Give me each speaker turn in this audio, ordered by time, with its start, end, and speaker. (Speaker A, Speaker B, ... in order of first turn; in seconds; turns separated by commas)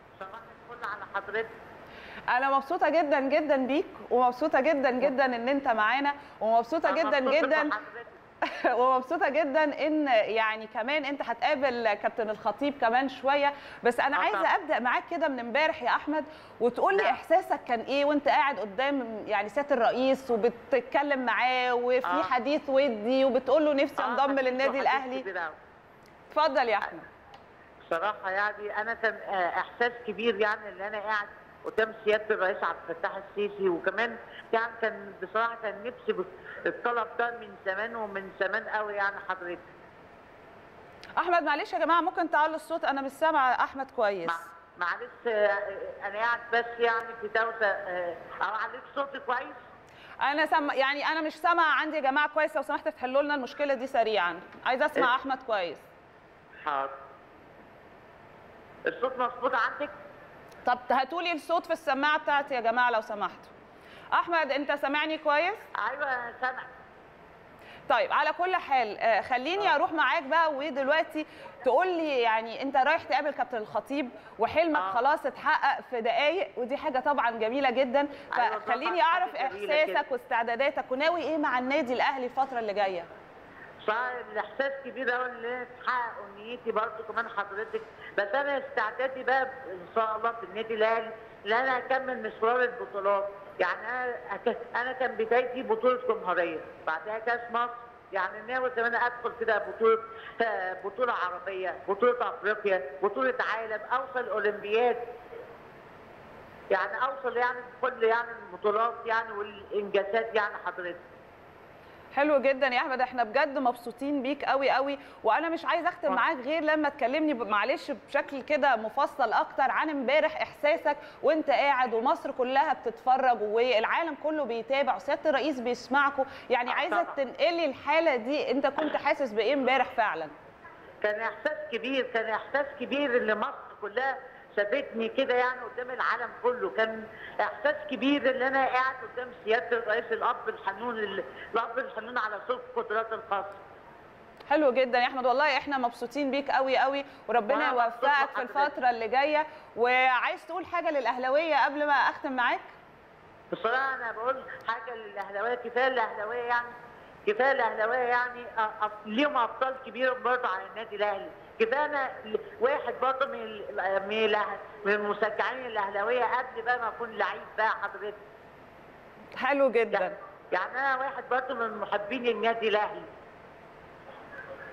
Speaker A: 0.2-1.5, Speaker B: 2.3-7.7, Speaker A: 6.9-8.2, Speaker B: 8.4-25.2, Speaker A: 14.1-14.5, Speaker A: 16.9-17.2, Speaker A: 22.1-22.3, Speaker A: 24.0-25.6, Speaker B: 26.3-27.1, Speaker A: 27.8-39.6, Speaker B: 41.2-44.5, Speaker A: 44.2-49.6, Speaker B: 50.2-55.8, Speaker A: 56.6-56.9, Speaker A: 58.9-59.9, Speaker B: 60.6-63.5, Speaker B: 64.1-65.6, Speaker A: 65.8-66.6, Speaker B: 67.9-83.1, Speaker A: 74.8-75.0, Speaker A: 78.3-80.0, Speaker A: 83.8-105.0, Speaker A: 106.7-111.0, Speaker B: 112.1-130.3, Speaker A: 126.7-127.2, Speaker A: 131.0-143.6, Speaker B: 144.5-152.7, Speaker A: 147.5-148.7, Speaker A: 153.5-156.7, Speaker A: 157.2-168.2, Speaker B: 169.4-170.2, Speaker A: 169.9-173.1